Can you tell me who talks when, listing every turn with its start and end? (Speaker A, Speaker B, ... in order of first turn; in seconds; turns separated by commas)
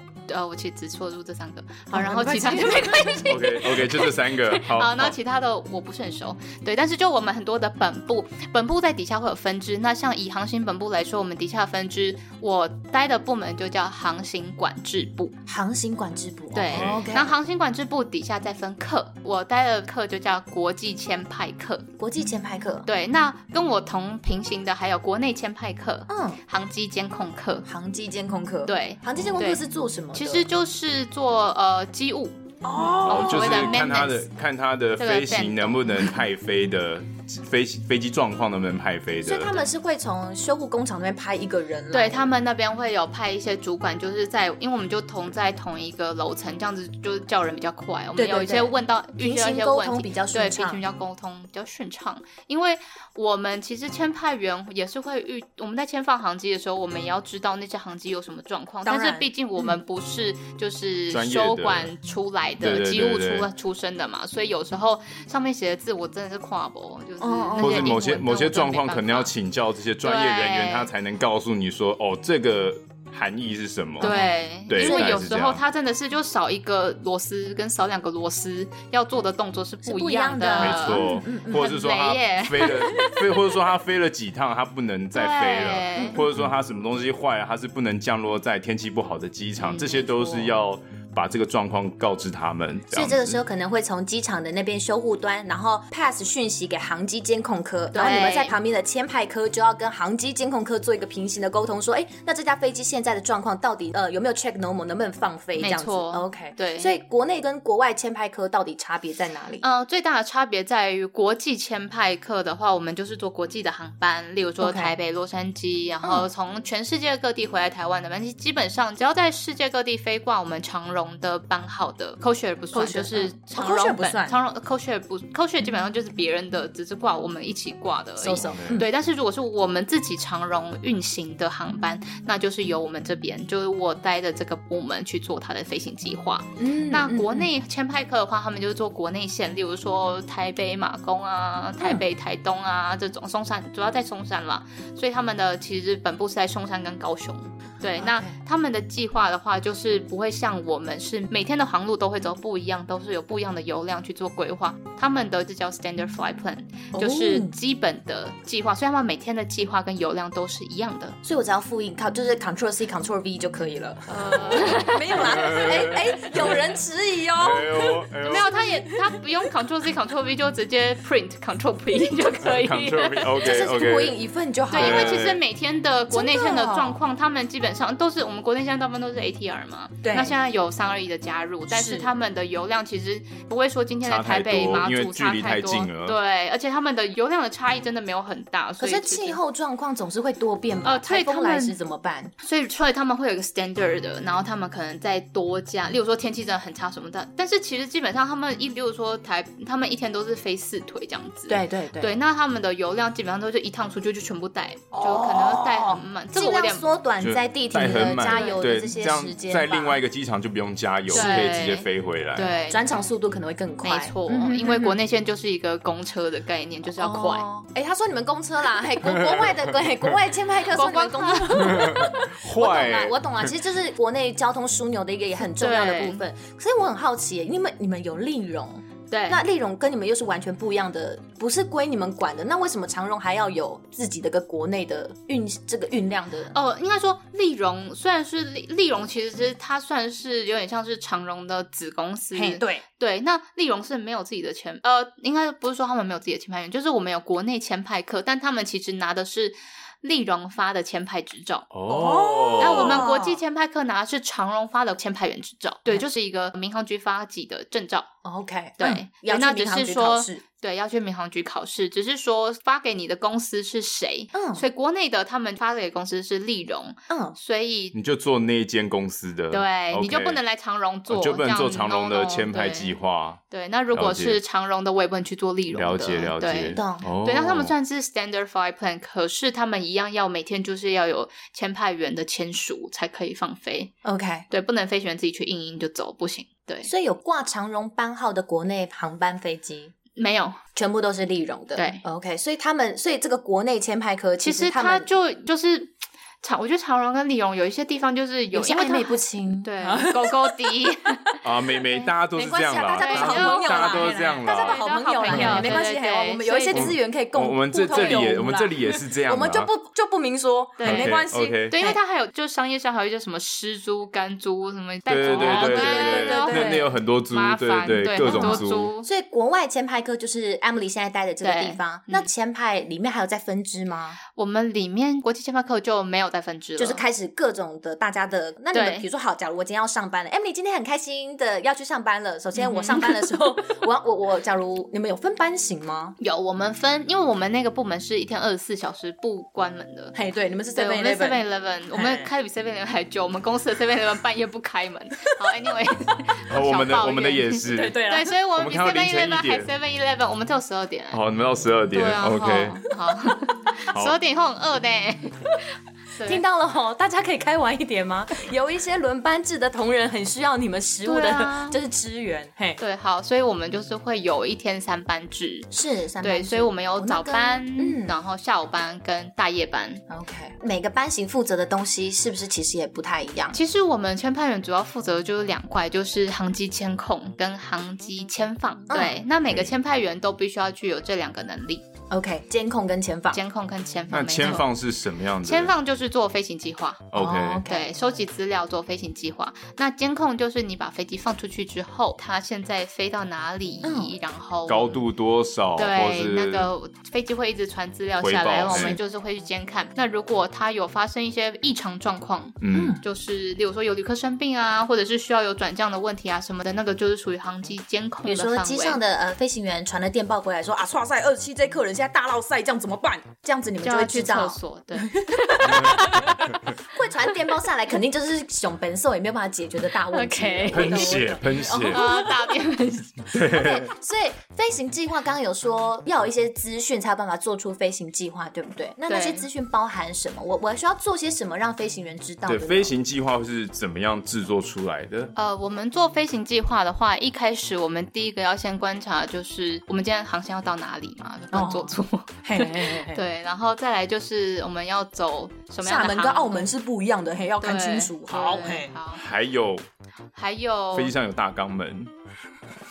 Speaker A: 0.3-15.3, Speaker B: 1.9-3.8, Speaker C: 3.2-5.2, Speaker B: 15.4-17.4, Speaker A: 16.5-21.9, Speaker C: 16.7-17.1, Speaker B: 22.0-22.9, Speaker A: 22.9-27.7, Speaker B: 26.1-26.4, Speaker B: 27.6-30.4, Speaker A: 28.7-32.4, Speaker B: 32.6-33.7, Speaker C: 33.0-39.6, Speaker A: 33.0-34.2, Speaker A: 35.0-36.1, Speaker B: 39.2-42.3, Speaker A: 41.9-69.3, Speaker B: 48.2-50.8, Speaker B: 58.8-59.8, Speaker C: 61.1-61.9, Speaker C: 62.6-63.5, Speaker B: 67.2-68.0, Speaker C: 67.6-75.6, Speaker A: 70.0-70.9, Speaker B: 74.0-75.2, Speaker A: 74.0-83.0, Speaker B: 79.8-81.7, Speaker C: 80.5-93.4, Speaker A: 85.1-86.2, Speaker B: 86.0-86.5, Speaker B: 89.6-90.6, Speaker B: 92.9-109.6, Speaker A: 97.9-98.5, Speaker A: 105.6-106.9, Speaker A: 109.6-161.2, Speaker B: 114.6-114.9, Speaker B: 122.7-124.4, Speaker B: 128.2-128.9, Speaker C: 128.4-128.8, Speaker B: 136.6-137.5, Speaker B: 147.9-148.3, Speaker B: 156.9-157.5, Speaker B: 161.2-168.8, Speaker A: 164.1-165.6, Speaker C: 165.1-166.5, Speaker C: 167.3-168.6, Speaker A: 168.2-173.7, Speaker C: 172.4-174.2, Speaker B: 173.4-175.4, Speaker A: 174.7-189.4, Speaker C: 174.7-175.4, Speaker B: 176.1-177.0, Speaker B: 180.0-180.3, Speaker B: 181.7-182.1, Speaker C: 184.0-186.2, Speaker B: 188.8-192.3, Speaker A: 190.8-191.7, Speaker A: 192.4-206.8, Speaker B: 201.5-202.1, Speaker B: 204.9-210.0, Speaker C: 207.2-212.5, Speaker A: 208.2-208.7, Speaker B: 211.1-211.5, Speaker A: 211.1-212.9, Speaker B: 212.7-215.0, Speaker A: 213.8-217.4, Speaker B: 217.0-236.5, Speaker C: 219.2-219.6, Speaker A: 220.7-221.9, Speaker C: 221.6-223.2, Speaker A: 225.4-226.2, Speaker A: 229.1-229.4, Speaker A: 236.5-251.7, Speaker B: 242.3-242.8, Speaker C: 251.7-253.0, Speaker B: 251.9-253.4, Speaker A: 252.6-258.1, Speaker B: 258.2-260.4, Speaker A: 258.8-267.9, Speaker B: 264.3-264.6, Speaker B: 267.1-267.4, Speaker C: 267.9-270.4, Speaker A: 269.5-272.9, Speaker C: 271.1-273.4, Speaker A: 273.5-283.9, Speaker C: 273.9-274.4, Speaker C: 275.7-277.7, Speaker B: 276.7-277.0, Speaker B: 284.0-284.4, Speaker A: 284.5-286.9, Speaker B: 286.8-289.9, Speaker A: 290.1-290.6, Speaker B: 290.7-295.1, Speaker A: 291.7-292.0, Speaker A: 294.4-301.3, Speaker B: 298.5-300.8, Speaker C: 301.4-305.8, Speaker B: 302.3-312.0, Speaker A: 303.0-306.9, Speaker C: 306.7-309.7, Speaker A: 310.8-319.1, Speaker C: 310.8-311.7, Speaker C: 315.1-318.9, Speaker B: 315.3-316.9, Speaker B: 318.2-324.2, Speaker A: 321.4-322.3, Speaker A: 324.4-327.0, Speaker B: 326.8-336.1, Speaker A: 328.7-329.0, Speaker A: 332.5-333.2, Speaker A: 336.2-340.1, Speaker B: 340.1-341.4, Speaker A: 340.7-351.2, Speaker B: 341.9-342.3, Speaker C: 346.5-348.0, Speaker B: 347.7-348.3, Speaker C: 348.6-349.7, Speaker C: 351.1-352.9, Speaker A: 351.9-355.6, Speaker C: 353.9-354.2, Speaker A: 356.1-356.4, Speaker B: 356.2-362.8, Speaker A: 361.0-361.8, Speaker A: 362.8-365.7, Speaker B: 365.7-368.1, Speaker A: 366.2-370.0, Speaker B: 370.1-373.6, Speaker A: 373.5-381.8, Speaker B: 378.9-379.2, Speaker C: 379.4-379.7, Speaker B: 382.1-383.4, Speaker A: 383.3-384.7, Speaker C: 384.1-385.7, Speaker A: 385.4-387.1, Speaker C: 387.1-387.6, Speaker B: 387.1-387.9, Speaker A: 387.6-395.0, Speaker B: 393.8-394.1, Speaker C: 394.7-396.7, Speaker A: 395.8-409.0, Speaker C: 398.2-399.0, Speaker B: 398.7-399.0, Speaker C: 402.6-403.0, Speaker B: 402.7-403.0, Speaker B: 408.2-422.5, Speaker A: 413.8-416.5, Speaker A: 420.1-423.3, Speaker C: 420.7-422.0, Speaker C: 423.3-423.9, Speaker B: 423.3-432.9, Speaker A: 429.1-429.4, Speaker C: 432.4-435.3, Speaker A: 435.4-446.7, Speaker B: 441.5-443.2, Speaker B: 445.8-448.9, Speaker A: 447.6-449.2, Speaker C: 449.1-449.8, Speaker A: 450.3-451.1, Speaker C: 450.9-452.1